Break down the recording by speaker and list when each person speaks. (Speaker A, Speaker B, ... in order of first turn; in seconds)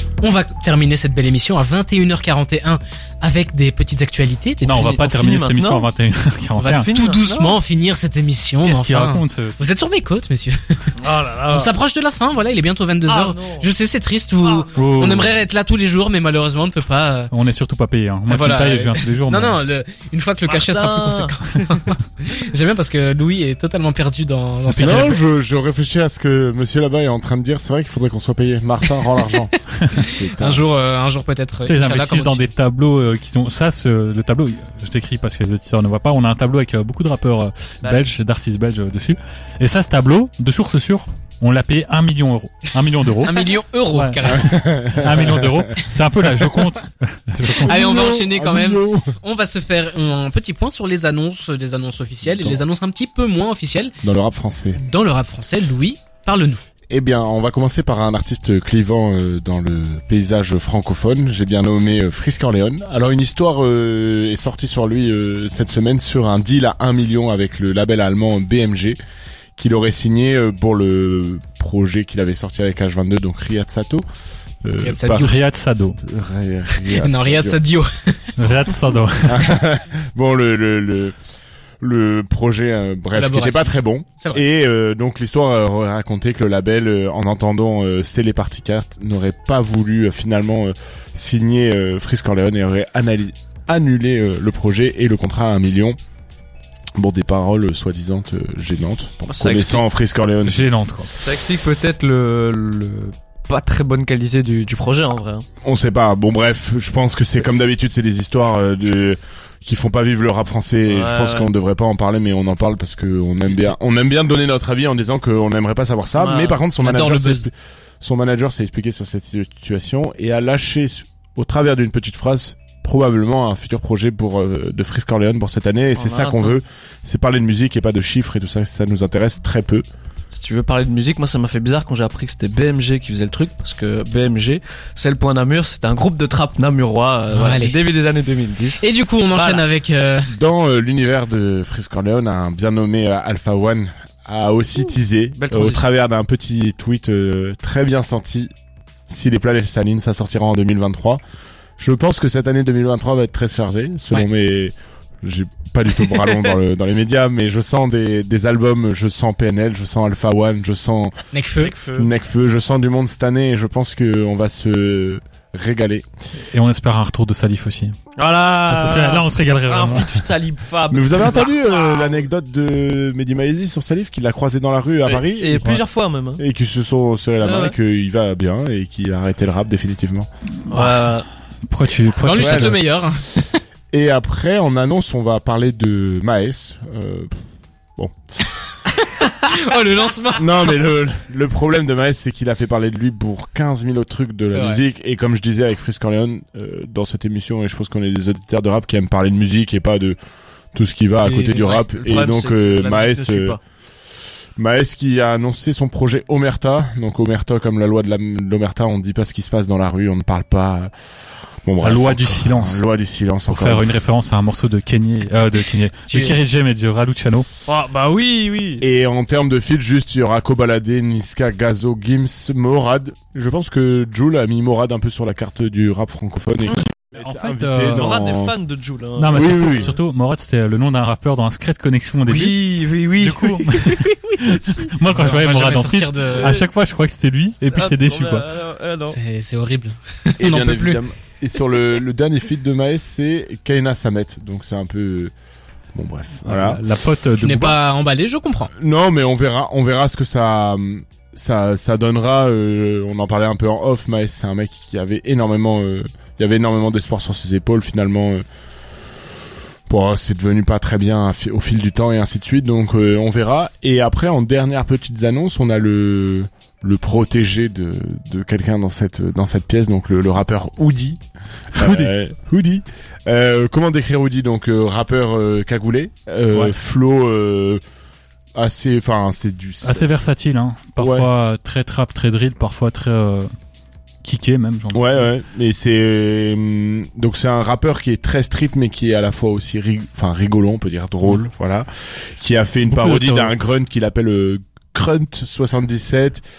Speaker A: 0.2-5.1, 6.6-10.9, 11.5-17.3, 18.3-25.2, 30.0-32.5, 43.2-44.6, 47.6-53.9, 54.8-56.6, 74.8-75.3, 76.8-78.5, 83.1-84.4, 116.8-117.5, 137.3-137.8, 138.8-140.3, 161.3-161.7, 182.2-183.5, 188.9-190.5, 194.5-194.8, 216.1-216.3, 235.1-236.6, 239.1-241.0, 247.4-248.7
Speaker B: 4.6-6.9, 8.6-9.6, 14.7-15.3, 17.3-19.6, 24.7-25.1, 29.8-30.1, 31.6-48.1, 75.1-76.0, 78.4-79.5, 100.4-101.1, 166.5-167.9, 168.7-170.2, 180.7-181.1, 181.7-182.9, 211.8-212.8, 213.5-217.4, 227.1-228.2, 229.2-232.6, 233.2-238.5, 246.4-247.8, 271.8-272.1, 279.8-283.5, 284.2-285.3, 292.9-293.5
Speaker C: 4.8-5.9, 6.7-7.5, 11.0-11.7, 13.1-13.7, 14.4-15.2, 20.4-21.4, 37.8-38.1, 99.3-99.8, 101.2-105.5, 110.9-111.5, 116.2-116.6, 126.0-126.6, 130.3-139.6, 145.4-145.8, 161.6-162.1, 168.2-172.2, 175.1-176.4, 177.4-177.8, 180.7-181.3, 201.2-203.6, 217.7-218.8, 227.9-230.0, 232.2-234.9, 236.3-236.7, 237.7-239.2
Speaker D: 24.8-29.5, 30.1-30.6, 44.4-45.6, 47.6-49.1, 52.2-52.6, 54.0-54.8, 56.9-69.0, 69.6-74.0, 74.6-77.6, 79.2-81.2, 81.8-96.0, 97.0-100.7, 105.6-129.8, 140.3-148.5, 149.1-151.2, 151.8-161.2, 161.9-166.1, 170.9-175.7, 176.4-180.3, 182.3-182.7, 183.9-187.4, 190.3-200.2, 200.7-203.6, 204.6-210.9, 211.6-214.0, 218.8-228.5, 229.3-229.9, 240.4-245.3, 245.9-246.8, 248.7-258.4, 259.9-271.2, 271.7-277.8, 278.6-280.2, 281.0-281.3, 284.9-296.4